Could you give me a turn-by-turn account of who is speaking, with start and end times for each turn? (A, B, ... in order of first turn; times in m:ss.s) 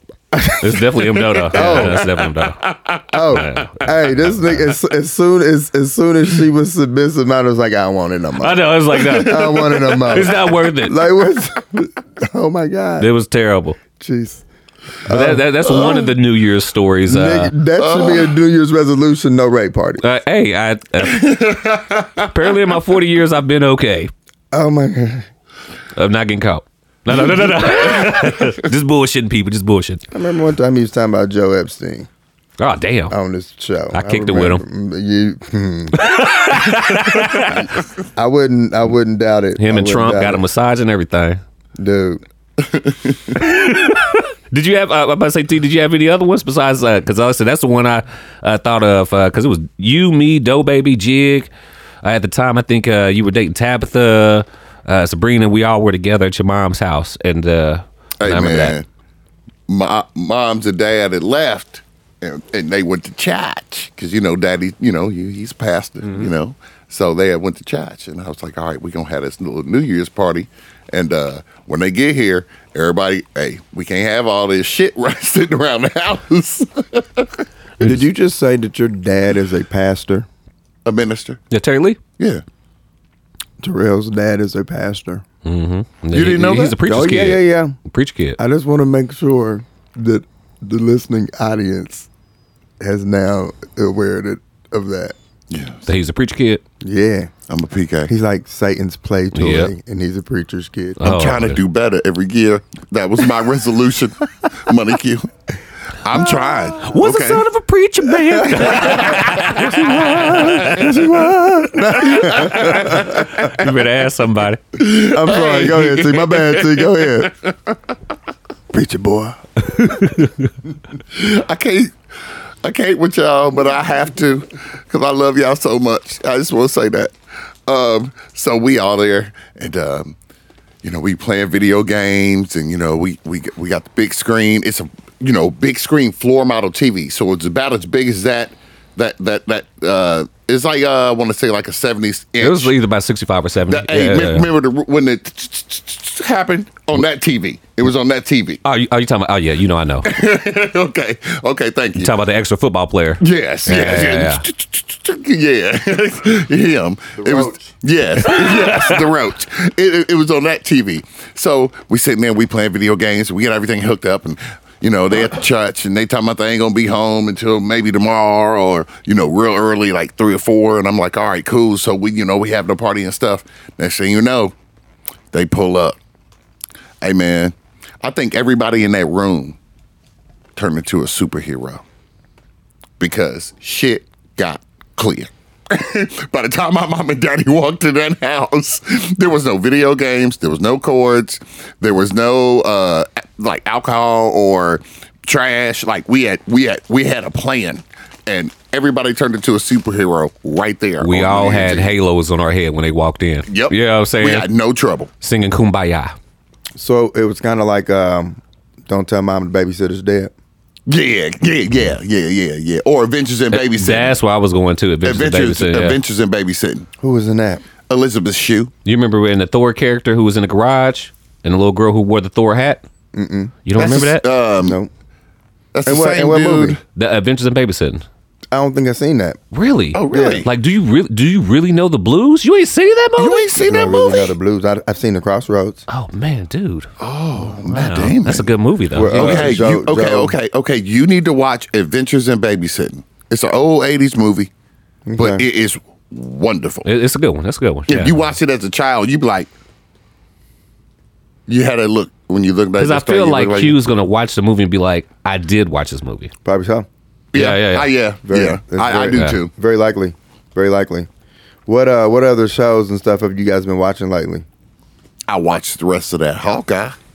0:00.3-0:02.1 A
0:00.5-0:02.7 B
0:01.6-0:02.1 C
0:02.6-0:03.0 C
0:03.1-0:13.1 A
0:03.3-0:04.7 B
0:08.4-0:11.0 B
0:13.0-0:13.8 B
0:14.0-0:14.4 A
0:15.0-0:16.0 A
0:15.1-0:17.5 B
0:15.7-0:16.0 C
0:17.1-0:20.0 A
0:17.8-0:18.3 C
0:20.0-0:21.4 B
0:21.0-0:22.6 C
0:22.2-0:24.1 B
0:24.5-0:25.3 A
0:26.0-0:30.0 B
0:30.1-0:32.1 A
0:32.6-0:33.1 B
0:33.1-0:36.1 A
0:33.9-0:34.6 B
0:36.0-0:37.7 B
0:38.2-0:40.4 A
0:39.6-0:41.4 B
0:41.8-0:42.2 A
0:43.3-0:51.5 B
0:52.0-0:58.8 B
0:58.2-0:58.8 C
0:59.7-1:17.4 C
1:17.8-1:20.3 A
1:20.8-1:21.4 C
1:21.5-1:22.0 B
1:23.6-1:25.2 A
1:25.4-1:28.4 B
1:26.1-1:26.8 C
1:26.8-1:27.8 A
1:28.4-1:32.1 A
1:32.8-1:35.2 A
1:35.5-1:35.8 C
1:35.9-1:36.6 B
1:36.8-1:37.3 A
1:37.5-1:38.1 C
1:38.1-1:41.0 A
1:39.3-1:39.7 B
1:41.0-1:41.6 B
1:41.0-1:45.3 C
1:46.0-1:47.4 C
1:46.8-1:50.9 B
1:48.5-1:49.0 A
1:48.6-1:49.9 C
1:49.7-1:53.4 A
1:52.0-1:53.0 C
1:52.1-1:54.6 B
1:54.8-1:57.3 C
1:54.8-1:57.3 A
1:58.7-1:59.4 A
1:59.7-2:00.5 B
2:01.1-2:01.9 C
2:02.6-2:07.1 C
2:07.7-2:10.2 C
2:10.8-2:22.7 C
2:22.4-2:24.5 B
2:23.7-2:28.6 C
2:28.6-2:30.1 B
2:30.0-2:32.1 C
2:32.0-2:34.5 B
2:33.2-2:54.5 C
2:37.2-2:37.6 A
2:38.3-2:39.0 B
2:55.3-2:56.0 C
2:57.0-2:59.6 C
3:00.6-3:01.8 C
3:03.0-3:21.9 C
3:21.0-3:24.5 B
3:23.5-3:25.1 C
3:25.2-3:26.2 B
3:26.8-3:30.3 A
3:30.9-3:34.2 C
3:33.5-3:36.0 B
3:35.0-3:36.9 C
3:37.0-3:37.6 A
3:37.9-3:38.7 C
3:38.8-3:42.8 B
3:43.1-3:43.6 A
3:43.6-3:44.3 B
3:43.8-3:44.8 C
3:44.6-3:44.9 A
3:45.7-3:46.8 C
3:45.8-3:46.8 A
3:47.0-3:48.0 B
3:48.5-3:49.4 A
3:49.5-3:53.4 B
3:49.9-3:50.5 C
3:50.1-3:50.5 A
3:53.2-3:54.4 C
3:53.6-3:55.8 A
3:55.9-3:56.9 B
3:57.0-3:58.5 C
3:57.6-3:59.6 B
3:58.9-4:00.4 A
3:59.1-4:04.5 C
4:05.1-4:05.4 A
4:05.2-4:06.9 C
4:06.8-4:08.3 B
4:07.9-4:09.5 C
4:11.5-4:13.8 C
4:12.8-4:16.3 B
4:16.4-4:16.9 A
4:17.3-4:19.5 C
4:17.4-4:17.9 B
4:18.2-4:21.1 A
4:19.1-4:19.4 B
4:21.7-4:24.4 A
4:25.3-4:27.0 C